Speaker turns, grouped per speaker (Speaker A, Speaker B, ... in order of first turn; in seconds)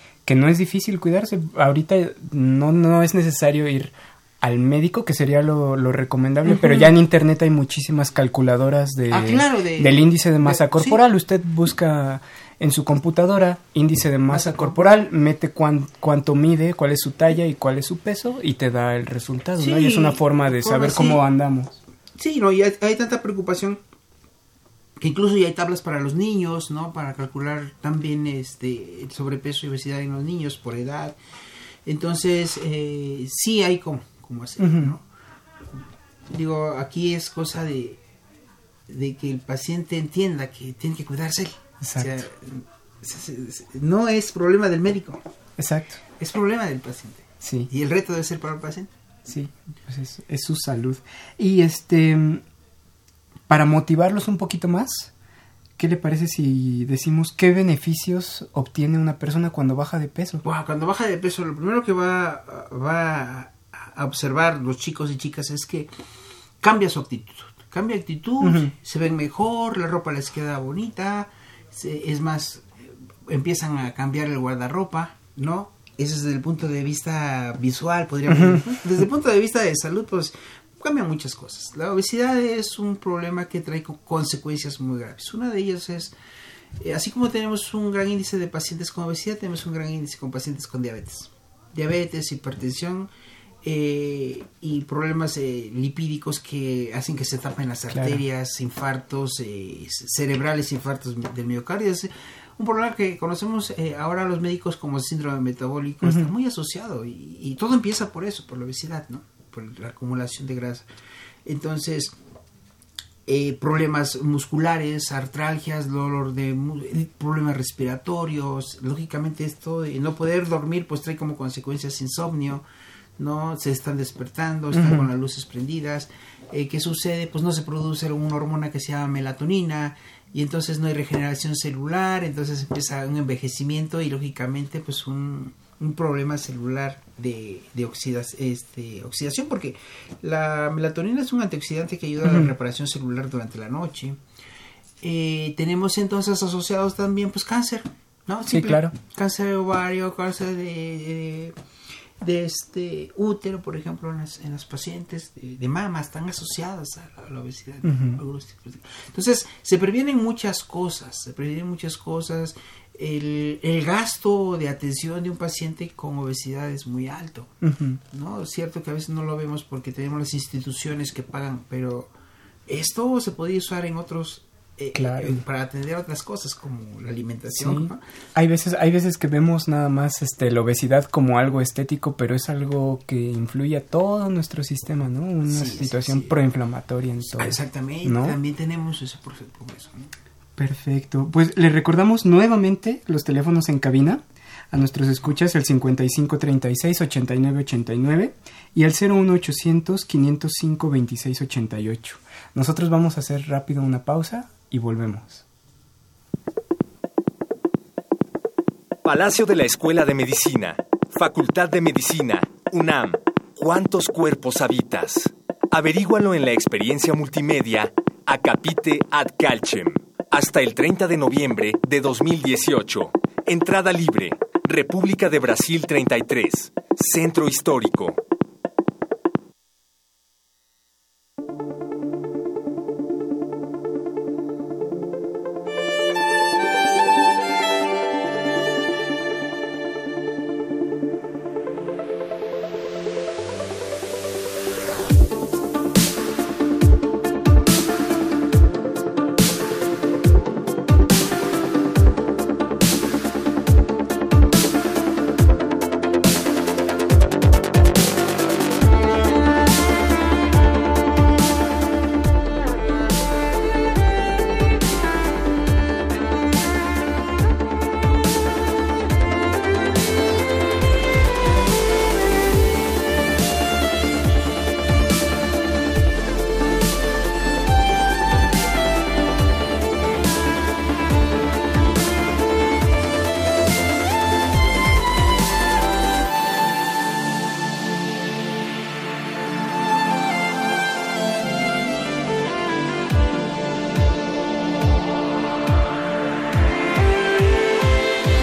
Speaker A: 0.2-21.8, 34.6-35.0, 41.8-42.2, 45.6-46.0, 47.4-47.7, 49.2-52.4, 53.5-55.1, 55.8-60.4, 68.4-68.7, 78.3-78.6, 97.9-98.2, 106.0-106.3, 124.7-125.1, 142.2-142.5, 148.5-148.9, 157.8-158.2, 167.6-168.0, 174.9-175.4, 177.6-188.4, 190.6-205.4
Speaker B: 6.5-6.9, 9.1-11.0, 14.3-15.0, 19.6-21.2, 22.2-23.8, 25.0-31.2, 31.9-35.0, 36.3-38.0, 38.9-45.2, 46.2-48.9, 60.4-65.9, 66.6-72.7, 73.3-86.1, 86.8-93.1, 93.6-110.8, 111.5-112.1, 113.3-122.6, 123.2-144.2, 145.0-151.5, 152.2-167.5, 168.1-172.1, 172.7-178.0, 185.4-186.3, 187.3-190.1
Speaker C: 209.0-228.2